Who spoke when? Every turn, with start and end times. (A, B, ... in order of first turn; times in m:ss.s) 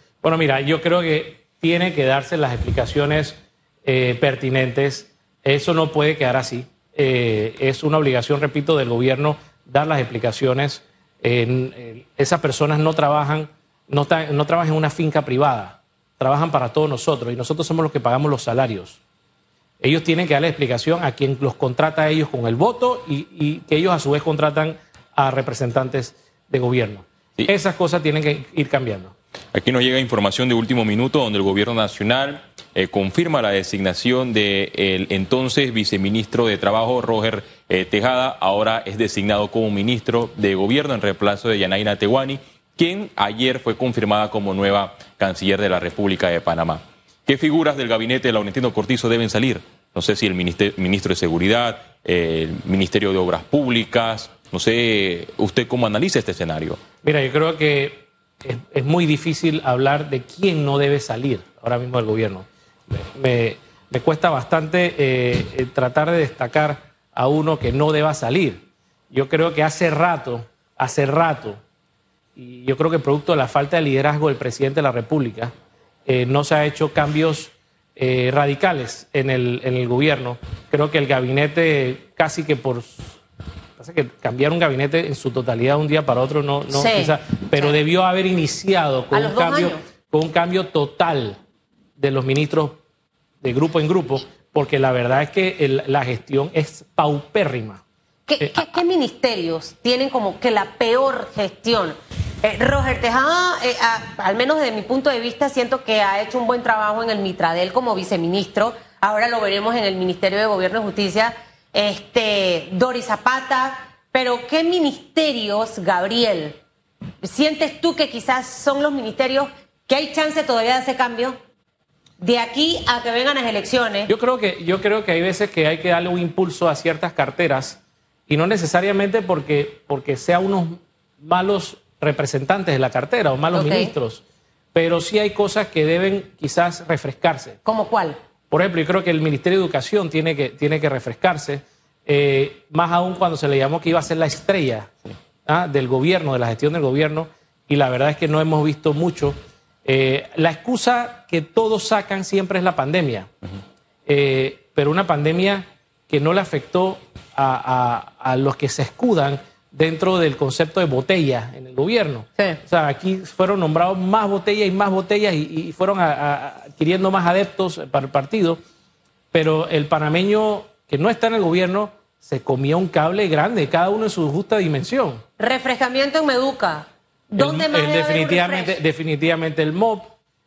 0:00.2-0:19.0 A
0:19.8-0:29.1 A
0:29.5-0:56.8 B
0:57.0-1:11.6 A
1:12.4-1:15.5 A
1:16.1-1:23.2 A
1:23.8-1:31.4 A
1:26.7-1:27.8 C
1:29.1-1:29.8 C
1:32.0-1:32.8 A
1:33.4-1:37.8 A
1:38.3-1:56.6 C
1:38.4-1:38.7 A
1:57.2-2:01.4 C
2:02.2-2:04.1 C
2:04.1-2:14.2 A
2:13.5-2:13.9 C
2:14.7-2:17.6 A
2:17.6-2:18.2 C
2:18.5-2:24.9 A
2:25.4-2:33.3 A
2:34.1-2:48.6 A
2:49.3-2:55.2 A
2:55.4-2:58.8 C
2:57.4-3:00.1 A